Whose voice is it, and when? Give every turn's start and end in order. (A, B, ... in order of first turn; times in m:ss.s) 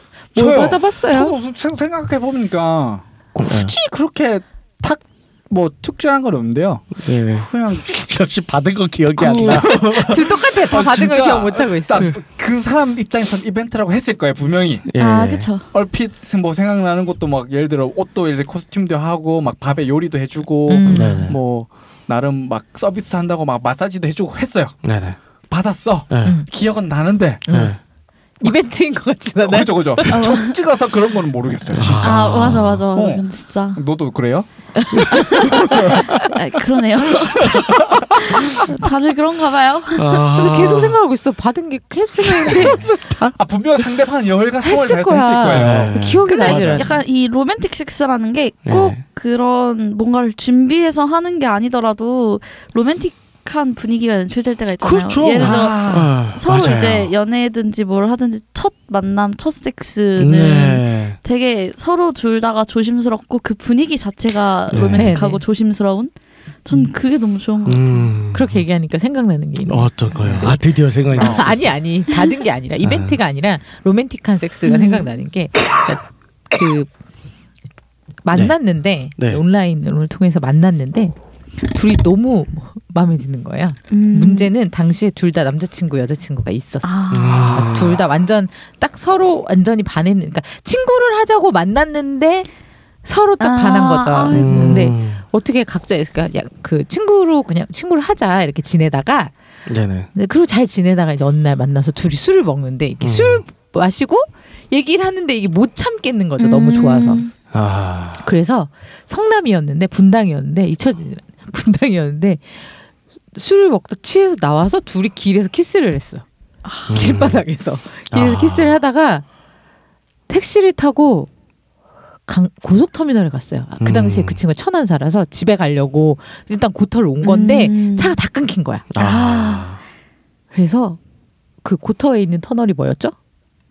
0:00.3-0:01.4 A
0:00.4-0:08.0 B
0:03.4-0:03.8 C
0:07.0-0:10.2 C
0:09.2-0:14.9 B
0:09.6-0:12.1 A
0:14.9-0:15.7 D
0:14.9-0:15.5 C
0:15.7-0:24.8 B
0:20.7-0:21.3 A
0:20.9-0:21.4 C
0:24.8-0:25.2 C
0:25.5-0:27.4 B
0:26.1-0:26.4 C
0:27.5-0:27.8 A
0:27.5-0:27.8 C
0:28.4-0:30.3 A
0:29.4-0:32.4 B
0:30.1-0:30.6 D
0:31.7-0:32.8 C
0:32.0-0:33.8 D
0:33.0-0:33.2 B
0:33.8-0:36.2 B
0:34.8-0:35.6 A
0:35.1-0:40.3 D
0:37.4-0:38.1 B
0:40.0-0:41.0 C
0:40.3-0:43.3 A
0:42.4-0:43.3 C
0:43.4-0:46.9 B
0:44.6-0:47.0 A
0:45.5-0:46.8 C
0:46.3-1:06.1 D
0:48.7-0:49.0 C
0:54.8-0:57.1 C
0:55.4-0:56.1 B
1:00.2-1:01.2 C
1:04.7-1:05.2 C
1:04.9-1:05.4 A
1:06.6-1:08.1 D
1:07.6-1:08.6 C
1:08.3-1:10.6 A
1:09.7-1:11.7 C
1:11.1-1:16.9 A
1:12.8-1:13.2 C
1:14.7-1:15.1 D
1:18.2-1:32.5 A
1:18.3-1:18.6 C
1:19.2-1:19.4 C
1:23.9-1:24.5 D
1:26.8-1:27.6 D
1:27.1-1:28.0 C
1:33.0-1:39.3 A
1:33.4-1:34.8 D
1:34.3-1:35.2 C
1:39.7-1:40.1 C
1:40.1-1:47.2 A
1:43.0-1:43.4 C
1:46.4-1:47.3 D
1:47.5-1:48.3 C
1:48.2-1:52.6 A
1:53.3-1:56.2 A
1:56.8-1:59.2 A
1:56.9-1:57.4 C
1:58.1-1:58.8 C
2:00.3-2:01.3 A
2:02.3-2:09.0 A
2:03.8-2:04.4 C
2:07.2-2:08.2 D
2:08.9-2:09.8 C
2:09.0-2:09.6 D
2:10.5-2:11.0 A
2:11.6-2:13.1 A